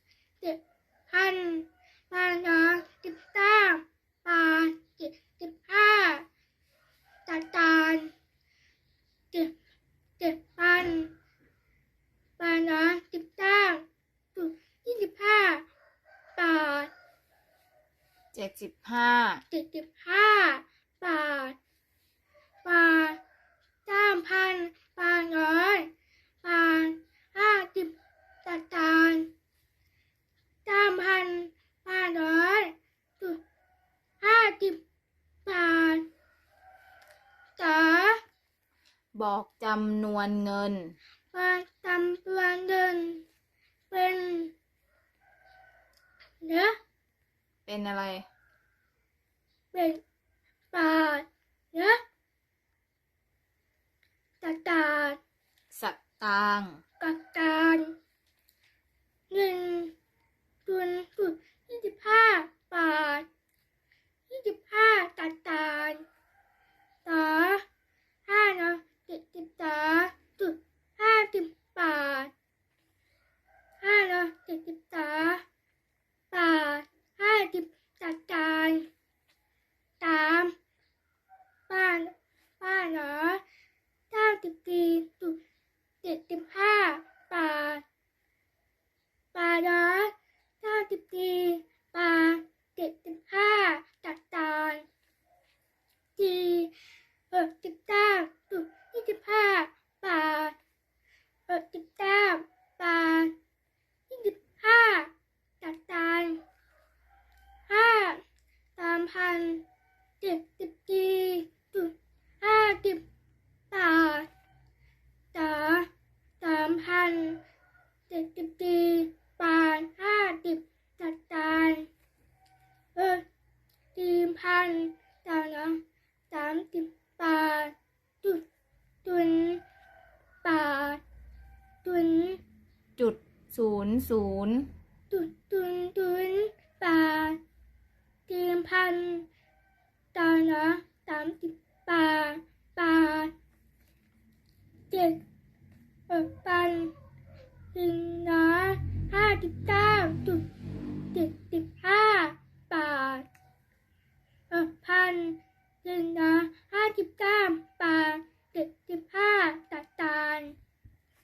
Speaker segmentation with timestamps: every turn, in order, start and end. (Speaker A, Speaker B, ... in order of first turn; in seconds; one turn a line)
Speaker A: 0.4-6.2
Speaker A: 7.2-8.1
Speaker A: 10.2-11.1
Speaker A: 12.4-15.7
Speaker A: 16.4-16.9
Speaker B: 18.3-19.4
Speaker A: 19.5-21.6
Speaker A: 22.6-23.2
Speaker A: 23.9-25.9
Speaker A: 26.4-29.3
Speaker A: 30.6-33.4
Speaker A: 34.2-34.8
Speaker A: 35.4-36.1
Speaker A: 37.6-38.2
Speaker B: 39.1-41.0
Speaker A: 41.3-43.2
Speaker A: 43.9-44.5
Speaker A: 46.4-46.8
Speaker B: 47.6-48.3
Speaker A: 49.7-50.0
Speaker A: 50.7-52.0
Speaker A: 54.4-55.2
Speaker B: 55.7-56.8
Speaker A: 57.0-57.9
Speaker A: 59.3-59.9
Speaker A: 60.6-63.3
Speaker A: 64.3-66.0
Speaker A: 67.0-67.6
Speaker A: 68.3-72.3
Speaker A: 73.8-75.4
Speaker A: 76.3-78.9
Speaker A: 80.0-80.5
Speaker A: 81.7-83.4
Speaker A: 84.1-85.4
Speaker A: 86.0-87.8
Speaker A: 89.3-94.8
Speaker A: 96.2-96.7
Speaker A: 97.3-100.5
Speaker A: 101.5-103.3
Speaker A: 104.1-106.4
Speaker A: 107.7-108.2
Speaker A: 108.8-109.6
Speaker A: 110.2-113.0
Speaker A: 113.7-114.3
Speaker A: 115.3-115.9
Speaker A: 116.4-117.4
Speaker A: 118.1-121.9
Speaker A: 122.9-123.2
Speaker A: 123.9-128.4
Speaker A: 129.0-129.6
Speaker A: 130.4-131.0
Speaker A: 131.8-132.4
Speaker B: 133.0-134.7
Speaker A: 135.1-137.4
Speaker A: 138.3-139.3
Speaker A: 140.1-143.3
Speaker A: 144.9-145.2
Speaker A: 146.1-146.9
Speaker A: 147.7-150.5
Speaker A: 151.1-153.3
Speaker A: 154.5-160.6